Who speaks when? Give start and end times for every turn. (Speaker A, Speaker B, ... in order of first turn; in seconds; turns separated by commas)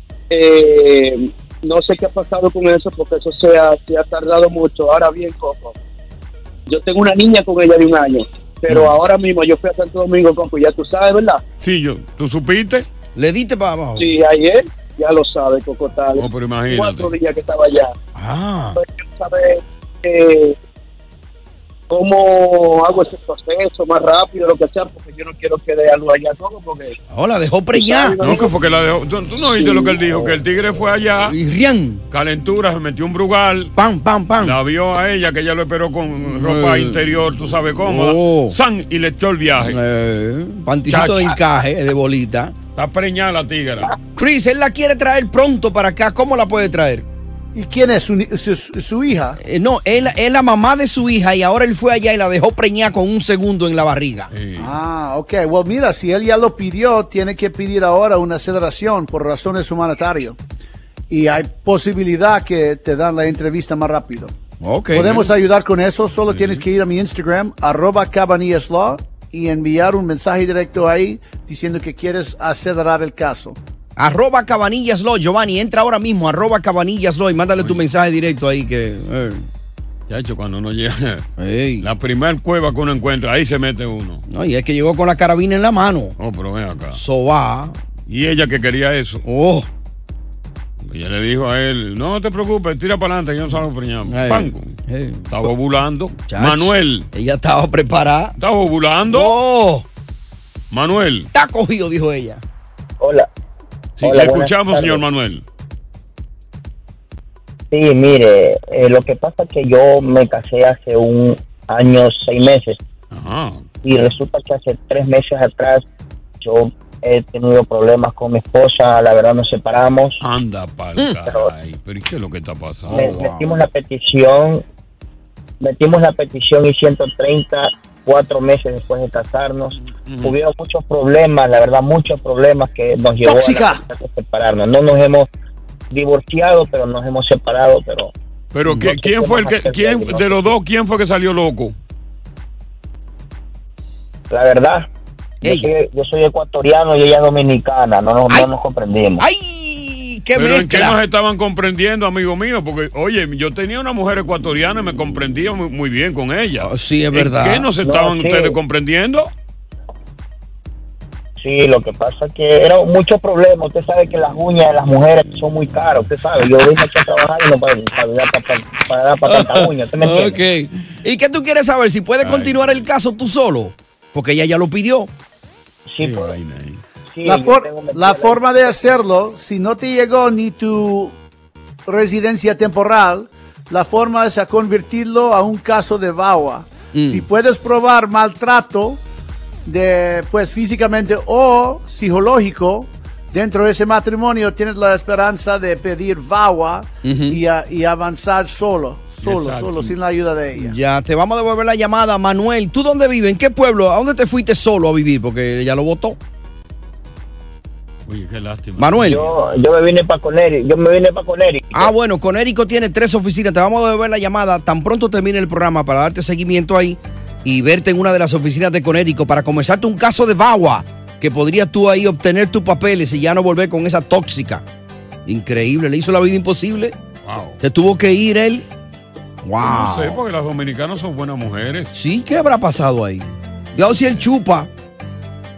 Speaker A: 0.3-5.8, Speaker A: 6.7-11.4, Speaker B: 8.7-9.0, Speaker B: 11.6-12.9, Speaker C: 13.2-14.1, Speaker A: 14.0-17.9, Speaker B: 16.1-17.1, Speaker C: 18.1-18.8, Speaker A: 18.8-20.6, Speaker A: 21.9-26.9, Speaker C: 27.1-28.4, Speaker A: 27.7-28.6, Speaker B: 28.2-31.4, Speaker A: 29.6-30.0, Speaker C: 30.0-30.4, Speaker C: 31.2-32.0, Speaker B: 32.1-33.7, Speaker C: 33.8-34.6, Speaker B: 34.4-39.8, Speaker C: 36.2-37.1, Speaker C: 37.8-38.6, Speaker C: 39.6-42.6, Speaker B: 40.9-41.4, Speaker B: 42.8-43.9, Speaker C: 44.1-47.0, Speaker D: 47.5-49.4, Speaker C: 49.4-54.3, Speaker B: 54.3-54.7, Speaker D: 54.6-60.4, Speaker D: 61.1-64.4, Speaker C: 64.6-65.2, Speaker D: 64.9-73.6, Speaker B: 66.3-66.6, Speaker C: 74.0-79.5, Speaker B: 77.6-77.8, Speaker B: 80.1-81.3, Speaker C: 81.4-81.9, Speaker B: 81.8-84.2, Speaker C: 84.3-86.1, Speaker B: 86.2-87.0, Speaker C: 86.9-87.8, Speaker B: 88.1-89.2, Speaker C: 89.3-89.7, Speaker B: 90.8-94.8, Speaker C: 94.1-95.5, Speaker B: 95.3-97.1, Speaker C: 96.2-98.4, Speaker B: 98.4-99.3, Speaker C: 99.1-99.9, Speaker B: 100.7-101.3, Speaker C: 101.3-102.4, Speaker E: 103.0-103.3, Speaker B: 104.0-105.4, Speaker E: 104.0-105.0, Speaker E: 107.7-112.8, Speaker B: 113.1-113.6, Speaker E: 113.8-115.8, Speaker E: 116.4-120.2, Speaker B: 120.2-123.2, Speaker C: 122.8-123.6, Speaker E: 122.9-124.6, Speaker E: 125.6-135.3, Speaker B: 129.8-130.4, Speaker D: 133.2-133.8, Speaker E: 135.9-138.1, Speaker B: 138.5-141.8, Speaker E: 138.7-140.5, Speaker E: 144.3-144.9, Speaker C: 145.4-145.7, Speaker E: 145.4-149.3, Speaker C: 149.2-151.0, Speaker B: 150.3-159.3, Speaker C: 156.6-157.7, Speaker E: 157.8-158.6, Speaker E: 161.4-170.4, Speaker C: 169.2-175.1, Speaker B: 172.2-172.8, Speaker E: 175.9-176.3, Speaker B: 176.0-176.8, Speaker E: 177.1-178.9, Speaker D: 177.2-181.2, Speaker D: 181.9-189.0, Speaker C: 186.9-187.2, Speaker D: 189.7-200.8, Speaker C: 197.0-197.4, Speaker B: 199.2-200.0, Speaker C: 200.6-206.2, Speaker B: 208.1-209.3, Speaker C: 208.8-209.2, Speaker E: 209.0-211.9, Speaker C: 211.7-224.6, Speaker C: 225.3-226.9, Speaker B: 227.2-227.6, Speaker C: 227.6-228.7, Speaker C: 229.4-230.2, Speaker B: 229.6-231.9, Speaker C: 231.9-234.7